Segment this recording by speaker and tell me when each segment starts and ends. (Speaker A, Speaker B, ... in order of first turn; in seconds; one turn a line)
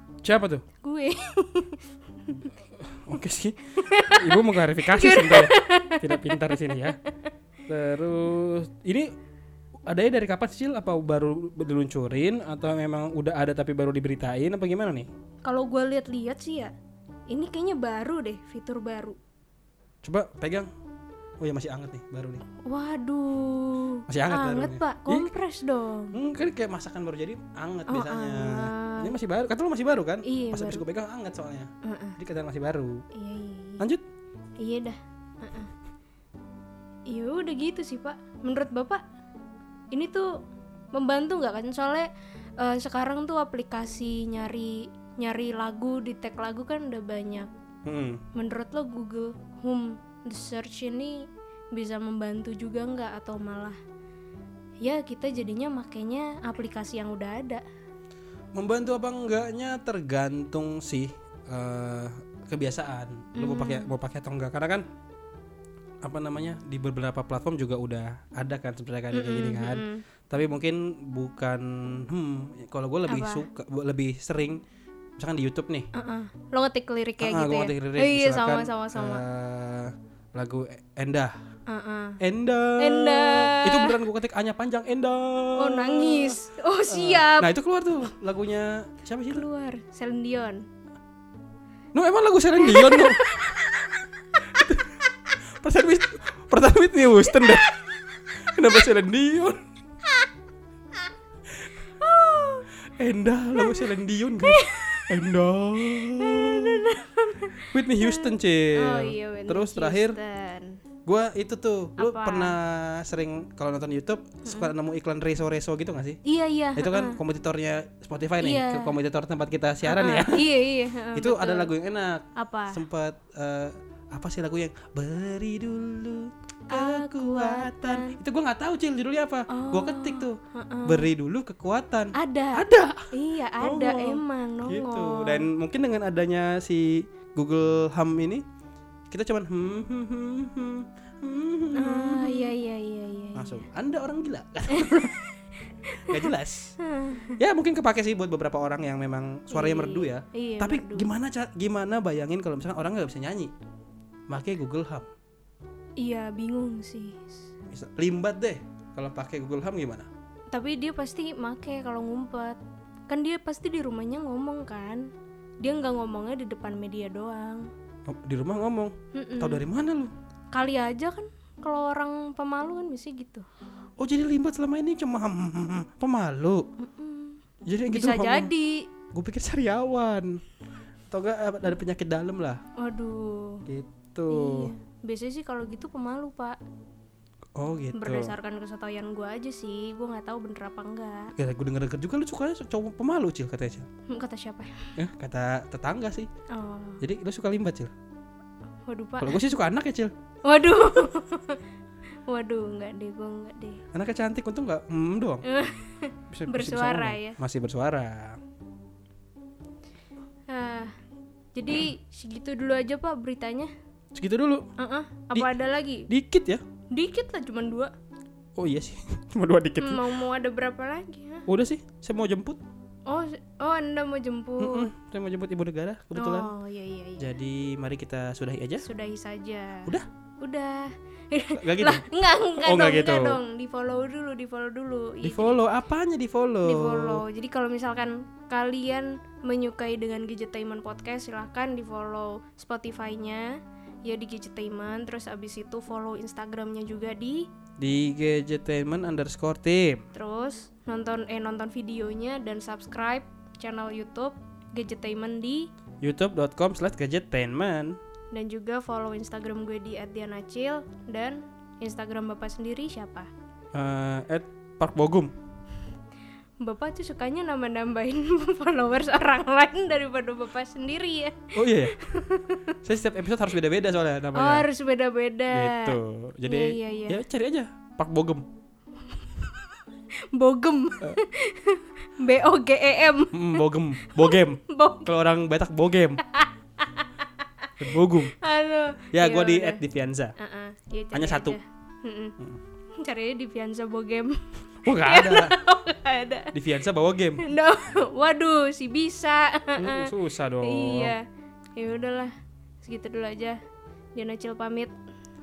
Speaker A: 0.2-0.7
Speaker B: 0.8-2.5
Speaker A: 2.8-7.0
Speaker B: 3.8-7.1
Speaker A: 7.7-9.1
Speaker A: 9.9-15.1
Speaker B: 15.4-16.7
Speaker B: 17.3-19.2
Speaker A: 20.0-20.7
Speaker A: 21.4-22.4
Speaker B: 22.7-26.2
Speaker A: 24.1-25.3
Speaker A: 26.1-33.0
Speaker B: 27.9-29.1
Speaker B: 30.3-30.8
Speaker B: 31.9-32.2
Speaker B: 33.1-33.9
Speaker B: 34.6-35.7
Speaker B: 37.1-39.0
Speaker B: 39.9-40.3
Speaker B: 40.9-47.5
Speaker A: 47.9-48.2
Speaker B: 48.4-53.8
Speaker B: 54.8-57.6
Speaker A: 58.5-64.8
Speaker B: 63.4-63.9
Speaker A: 66.0-74.6
Speaker B: 69.1-70.0
Speaker B: 73.1-73.5
Speaker A: 75.2-75.9
Speaker B: 75.9-79.2
Speaker A: 77.2-81.3
Speaker B: 81.7-82.2
Speaker A: 82.2-89.5
Speaker B: 82.8-84.0
Speaker B: 85.6-87.5
Speaker B: 89.3-90.6
Speaker A: 91.9-93.3
Speaker B: 92.6-93.9
Speaker A: 94.5-94.9
Speaker A: 95.6-97.7
Speaker A: 98.4-99.6
Speaker B: 102.0-102.7
Speaker A: 103.0-107.0
Speaker B: 103.6-105.2
Speaker B: 105.8-110.8
Speaker A: 107.6-110.2
Speaker A: 111.1-116.2
Speaker B: 112.0-112.6
Speaker B: 114.5-114.7
Speaker B: 116.2-117.2
Speaker A: 116.8-120.5
Speaker B: 118.4-119.0
Speaker B: 119.9-121.7
Speaker A: 121.2-133.1
Speaker B: 122.4-122.8
Speaker B: 126.7-128.2
Speaker B: 129.5-131.1
Speaker B: 132.2-135.4
Speaker A: 133.6-138.4
Speaker A: 139.1-142.6
Speaker B: 141.8-143.6
Speaker A: 143.3-145.2
Speaker B: 144.7-145.3
Speaker B: 145.9-147.4
Speaker A: 146.1-146.8
Speaker A: 147.4-153.5
Speaker B: 149.5-151.1
Speaker A: 154.3-155.1
Speaker B: 156.0-157.4
Speaker A: 157.7-160.1
Speaker B: 160.5-165.1
Speaker B: 165.6-167.7
Speaker A: 168.1-170.1
Speaker B: 169.1-169.6
Speaker B: 170.5-173.4
Speaker A: 174.0-176.6
Speaker B: 176.8-178.9
Speaker A: 177.7-178.5
Speaker A: 179.1-180.4
Speaker A: 181.1-182.6
Speaker B: 182.8-183.6
Speaker A: 183.7-184.7
Speaker B: 184.3-186.6
Speaker A: 187.6-188.3
Speaker B: 187.9-191.3
Speaker A: 191.4-193.9
Speaker B: 194.1-194.9
Speaker A: 195.0-196.3
Speaker B: 196.5-197.0
Speaker A: 197.0-197.9
Speaker B: 198.9-199.4
Speaker A: 199.2-200.1
Speaker B: 200.4-201.6
Speaker B: 202.3-203.8
Speaker A: 203.9-205.4
Speaker B: 205.4-207.4
Speaker A: 206.3-208.4
Speaker B: 210.5-210.9
Speaker B: 211.5-213.7
Speaker A: 214.2-214.7
Speaker B: 214.8-216.1
Speaker A: 216.1-216.6
Speaker B: 216.9-217.9
Speaker A: 218.6-220.1
Speaker B: 219.8-221.5
Speaker A: 221.5-222.6
Speaker B: 223.1-224.9
Speaker A: 224.6-226.5
Speaker B: 226.2-227.3
Speaker A: 227.2-228.8
Speaker B: 228.8-235.6
Speaker A: 231.6-232.1
Speaker A: 232.6-233.4
Speaker A: 235.2-237.2
Speaker B: 236.7-243.5
Speaker B: 244.0-247.5
Speaker A: 247.8-250.0
Speaker B: 250.1-255.7
Speaker A: 256.0-258.0
Speaker B: 258.3-263.3
Speaker A: 263.7-265.3
Speaker B: 266.6-272.8
Speaker A: 271.6-272.0
Speaker A: 272.8-274.7
Speaker B: 274.3-277.2
Speaker A: 275.5-278.5
Speaker B: 279.1-279.7
Speaker B: 280.3-285.1
Speaker A: 283.3-286.2
Speaker B: 286.3-287.7
Speaker A: 287.8-288.4
Speaker B: 288.4-289.8
Speaker A: 289.1-290.3
Speaker B: 290.4-292.4
Speaker A: 291.1-291.6
Speaker B: 293.0-294.4
Speaker A: 294.9-295.6
Speaker B: 294.9-296.5
Speaker A: 296.5-297.5
Speaker B: 297.4-301.2
Speaker A: 299.8-301.2
Speaker B: 301.8-303.6
Speaker B: 304.1-304.9